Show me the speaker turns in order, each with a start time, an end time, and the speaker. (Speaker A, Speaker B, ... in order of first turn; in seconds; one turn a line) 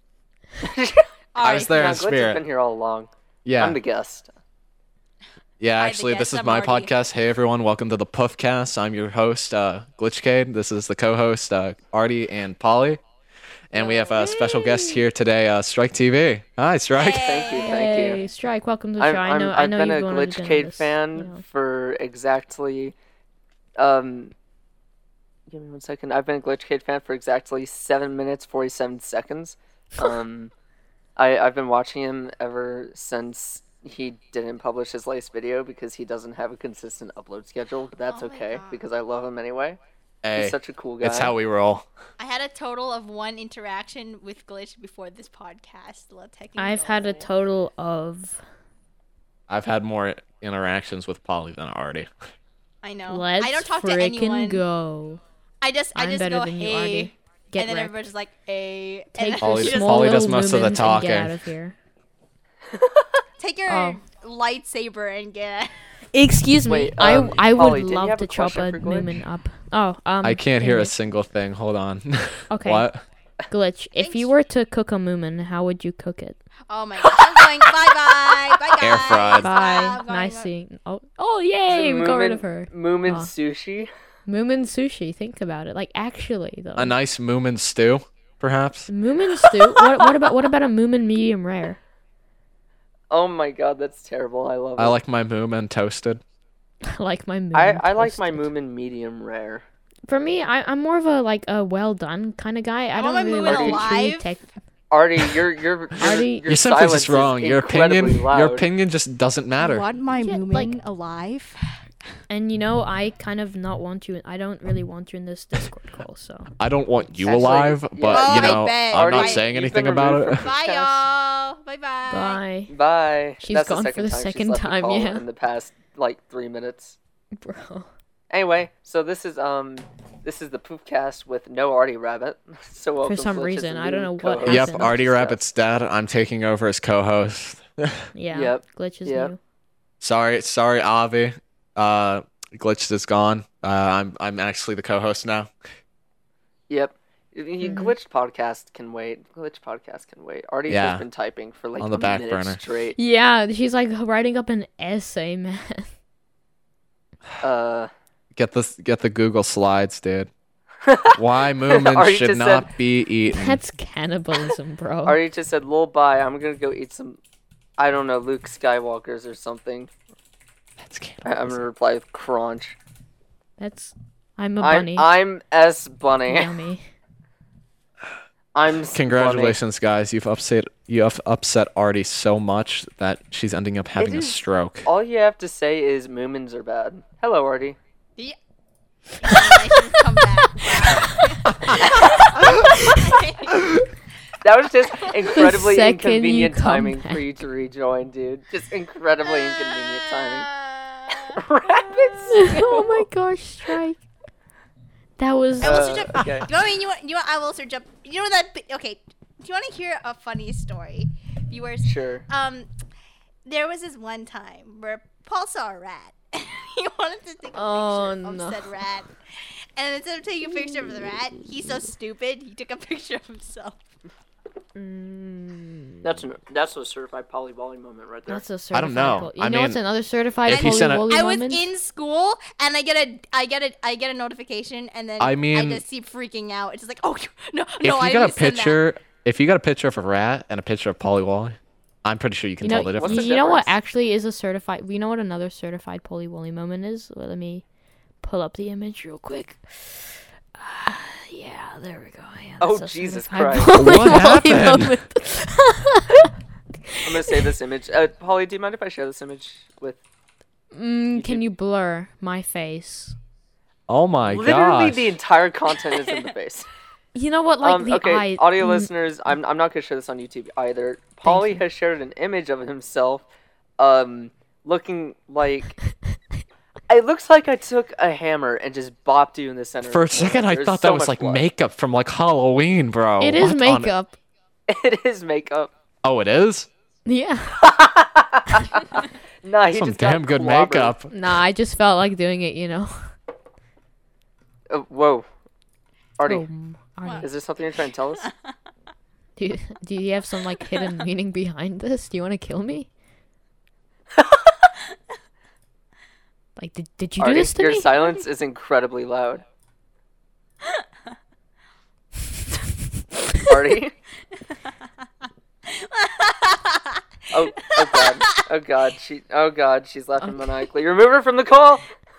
Speaker A: 0.6-4.3
Speaker B: 1.3-1.9
Speaker C: 1.4-2.4
Speaker C: 3.4-3.8
Speaker C: 5.6-13.0
Speaker B: 5.8-6.9
Speaker C: 13.7-17.4
Speaker D: 13.8-15.0
Speaker B: 16.9-18.2
Speaker A: 17.0-18.2
Speaker D: 17.6-21.4
Speaker A: 19.0-22.9
Speaker A: 23.8-24.3
Speaker A: 25.5-30.5
Speaker A: 31.1-39.8
Speaker B: 38.1-38.8
Speaker C: 40.2-41.9
Speaker A: 40.3-41.3
Speaker B: 42.2-47.3
Speaker D: 46.6-48.4
Speaker C: 49.5-52.1
Speaker B: 52.8-54.6
Speaker D: 53.1-55.2
Speaker B: 55.6-60.4
Speaker D: 55.9-57.9
Speaker D: 59.1-61.7
Speaker C: 59.4-61.4
Speaker A: 62.7-63.1
Speaker B: 63.4-65.7
Speaker D: 63.7-64.0
Speaker D: 66.1-70.9
Speaker A: 66.7-69.2
Speaker C: 70.2-73.0
Speaker D: 72.5-72.9
Speaker D: 73.5-76.4
Speaker B: 74.0-74.3
Speaker B: 76.7-80.5
Speaker C: 78.8-79.5
Speaker D: 79.4-83.3
Speaker A: 81.7-83.9
Speaker D: 84.2-86.9
Speaker C: 86.8-88.9
Speaker D: 88.9-91.8
Speaker A: 93.1-95.0
Speaker C: 94.8-96.2
Speaker D: 96.9-98.5
Speaker A: 97.5-99.6
Speaker D: 100.1-104.5
Speaker B: 102.9-104.3
Speaker A: 103.4-103.9
Speaker A: 104.9-108.7
Speaker D: 106.0-106.5
Speaker C: 106.5-109.8
Speaker B: 109.6-111.6
Speaker D: 110.1-110.8
Speaker D: 112.3-116.5
Speaker C: 116.6-120.5
Speaker A: 117.2-121.0
Speaker B: 118.1-119.5
Speaker B: 120.3-122.4
Speaker D: 122.1-122.7
Speaker A: 122.7-127.0
Speaker D: 123.4-125.2
Speaker D: 127.4-127.9
Speaker A: 128.3-135.4
Speaker D: 133.0-134.9
Speaker C: 134.4-138.1
Speaker D: 138.1-139.4
Speaker A: 138.3-139.3
Speaker C: 140.0-145.5
Speaker A: 146.7-153.0
Speaker D: 147.6-147.9
Speaker C: 150.7-151.1
Speaker C: 151.8-152.6
Speaker D: 152.9-155.9
Speaker A: 157.4-157.9
Speaker C: 158.3-160.3
Speaker A: 160.8-162.7
Speaker C: 161.1-163.6
Speaker D: 163.3-165.2
Speaker A: 165.0-167.2
Speaker A: 167.8-169.9
Speaker C: 170.8-171.6
Speaker A: 171.2-172.8
Speaker D: 173.6-175.1
Speaker A: 174.6-176.5
Speaker D: 176.3-176.9
Speaker A: 178.5-179.6
Speaker C: 178.9-184.8
Speaker A: 184.0-187.8
Speaker B: 189.2-193.6
Speaker D: 190.9-191.1
Speaker D: 192.4-193.0
Speaker A: 194.4-200.5
Speaker D: 195.3-197.4
Speaker B: 199.3-201.4
Speaker A: 201.1-203.1
Speaker D: 202.3-204.0
Speaker D: 205.2-206.0
Speaker A: 205.6-206.5
Speaker B: 205.6-212.7
Speaker A: 211.8-212.2
Speaker B: 213.4-223.8
Speaker D: 217.6-218.7
Speaker D: 224.7-226.2
Speaker A: 226.0-228.4
Speaker D: 228.3-231.7
Speaker C: 228.7-229.8
Speaker C: 230.4-231.1
Speaker B: 230.5-238.8
Speaker C: 235.2-235.8
Speaker C: 237.8-243.4
Speaker D: 242.6-247.6
Speaker A: 242.7-243.7
Speaker D: 248.2-256.3
Speaker A: 252.6-253.8
Speaker C: 253.7-255.0
Speaker D: 256.9-257.4
Speaker A: 257.0-260.0
Speaker D: 260.7-263.1
Speaker A: 261.1-261.4
Speaker C: 263.9-265.1
Speaker A: 264.2-266.7
Speaker D: 267.1-268.9
Speaker A: 267.6-273.2
Speaker D: 271.2-271.6
Speaker A: 273.8-275.8
Speaker A: 276.9-281.4
Speaker C: 279.9-283.9
Speaker D: 283.2-284.2
Speaker A: 284.7-285.7
Speaker C: 286.0-286.7
Speaker D: 287.1-287.7
Speaker A: 287.6-290.9
Speaker C: 289.7-291.1
Speaker D: 291.1-293.1
Speaker A: 294.7-295.3
Speaker A: 296.2-296.4
Speaker D: 296.2-297.3
Speaker B: 297.0-297.3
Speaker A: 297.2-298.3
Speaker D: 299.4-302.9
Speaker D: 306.6-307.9
Speaker A: 307.2-309.4
Speaker A: 313.5-313.9
Speaker B: 315.6-317.0
Speaker A: 317.3-321.9
Speaker B: 317.9-318.2